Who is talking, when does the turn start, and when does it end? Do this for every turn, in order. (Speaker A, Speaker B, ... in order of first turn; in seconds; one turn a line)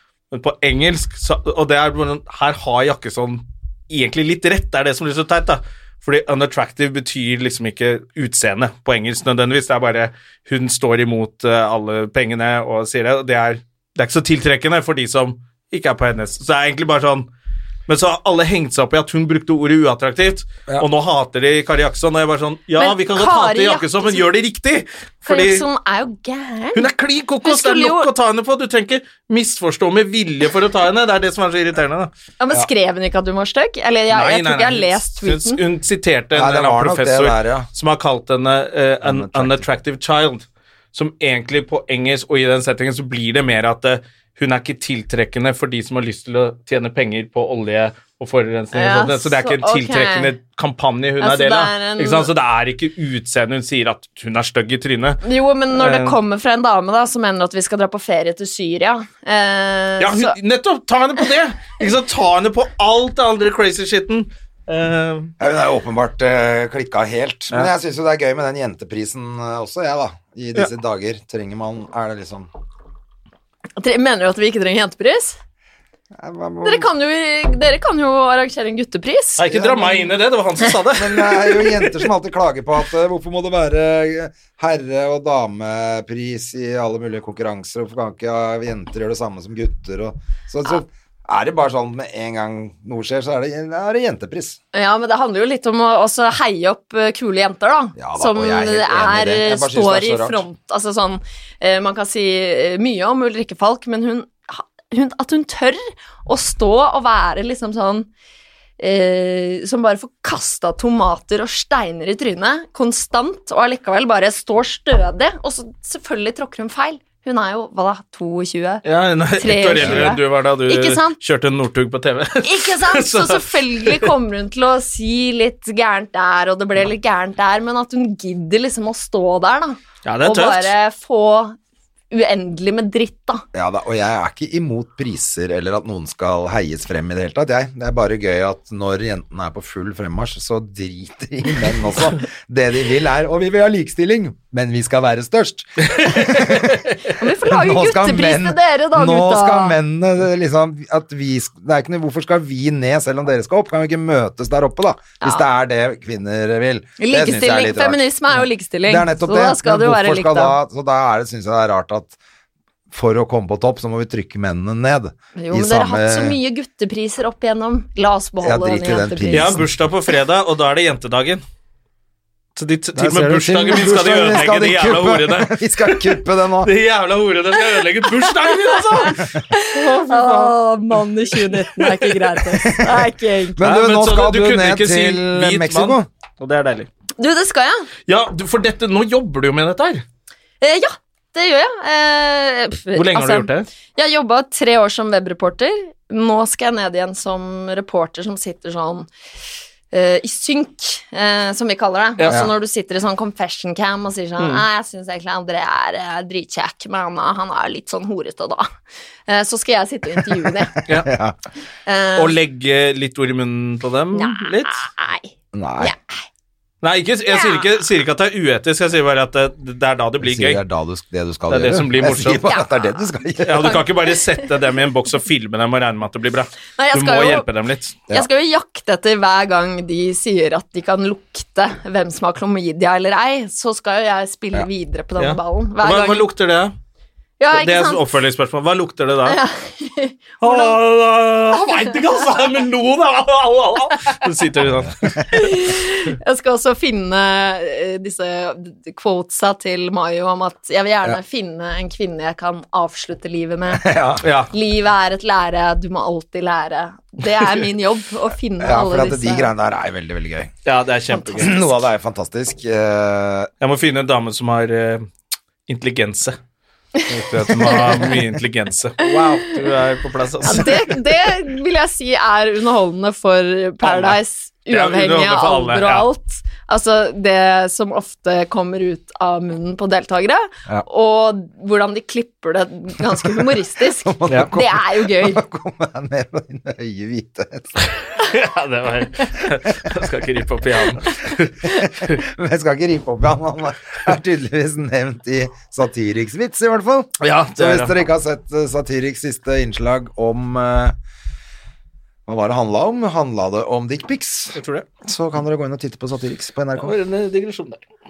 Speaker A: 0.3-17.3
Speaker A: 17.9-25.6
Speaker B: 22.8-24.3
Speaker B: 25.3-26.9
Speaker A: 26.8-32.1
Speaker B: 27.4-28.1
Speaker B: 32.4-35.6
Speaker A: 34.1-56.2
Speaker C: 36.3-37.7
Speaker C: 39.0-39.7
Speaker B: 48.7-50.3
Speaker B: 51.2-52.3
Speaker B: 55.2-60.4
Speaker A: 60.0-65.3
Speaker C: 65.4-72.5
Speaker B: 73.8-75.4
Speaker C: 76.2-76.9
Speaker B: 76.6-79.7
Speaker A: 79.4-81.9
Speaker C: 79.5-80.0
Speaker C: 80.9-94.6
Speaker B: 94.7-108.1
Speaker C: 98.0-100.4
Speaker B: 108.8-118.8
Speaker A: 118.8-124.1
Speaker B: 119.4-121.2
Speaker C: 119.8-120.1
Speaker B: 122.4-131.6
Speaker A: 130.1-130.7
Speaker B: 132.1-133.4
Speaker C: 133.5-146.9
Speaker A: 145.8-147.0
Speaker B: 147.2-149.8
Speaker C: 147.4-158.1
Speaker B: 157.0-160.6
Speaker C: 158.9-162.2
Speaker C: 162.9-166.4
Speaker B: 165.4-169.6
Speaker C: 168.4-169.6
Speaker A: 169.3-171.4
Speaker A: 172.6-182.4
Speaker C: 172.9-176.7
Speaker B: 178.4-183.6
Speaker C: 182.6-186.1
Speaker A: 183.6-186.9
Speaker B: 187.2-187.9
Speaker A: 188.1-190.0
Speaker B: 190.6-199.1
Speaker A: 192.9-193.7
Speaker B: 199.9-208.7
Speaker A: 202.2-202.4
Speaker A: 204.4-204.6
Speaker B: 209.3-210.8
Speaker A: 210.9-211.1
Speaker C: 210.9-211.4
Speaker B: 211.9-212.4
Speaker A: 212.2-214.9
Speaker B: 214.2-216.1
Speaker C: 215.5-215.9
Speaker A: 216.8-220.6
Speaker B: 217.3-217.7
Speaker C: 220.2-223.8
Speaker A: 221.5-222.5
Speaker A: 223.4-228.0
Speaker B: 226.8-227.5
Speaker B: 228.1-236.3
Speaker A: 235.2-236.8
Speaker B: 237.4-238.0
Speaker A: 237.5-239.4
Speaker B: 239.2-240.8
Speaker A: 240.4-245.8
Speaker B: 245.3-253.9
Speaker C: 253.7-254.2
Speaker A: 254.2-254.5
Speaker B: 254.5-259.5
Speaker C: 258.6-260.5
Speaker A: 260.6-261.6
Speaker B: 261.1-261.5
Speaker C: 261.4-263.5
Speaker A: 263.6-265.1
Speaker A: 265.7-266.4
Speaker A: 267.1-270.9
Speaker C: 267.4-268.0
Speaker B: 269.0-269.5
Speaker B: 270.4-285.4
Speaker A: 273.8-274.2
Speaker A: 274.7-276.1
Speaker C: 283.2-287.8
Speaker A: 284.3-284.5
Speaker A: 288.0-292.2
Speaker C: 291.7-301.0
Speaker A: 297.2-297.9
Speaker C: 302.3-306.9
Speaker A: 304.6-304.9
Speaker A: 306.8-307.8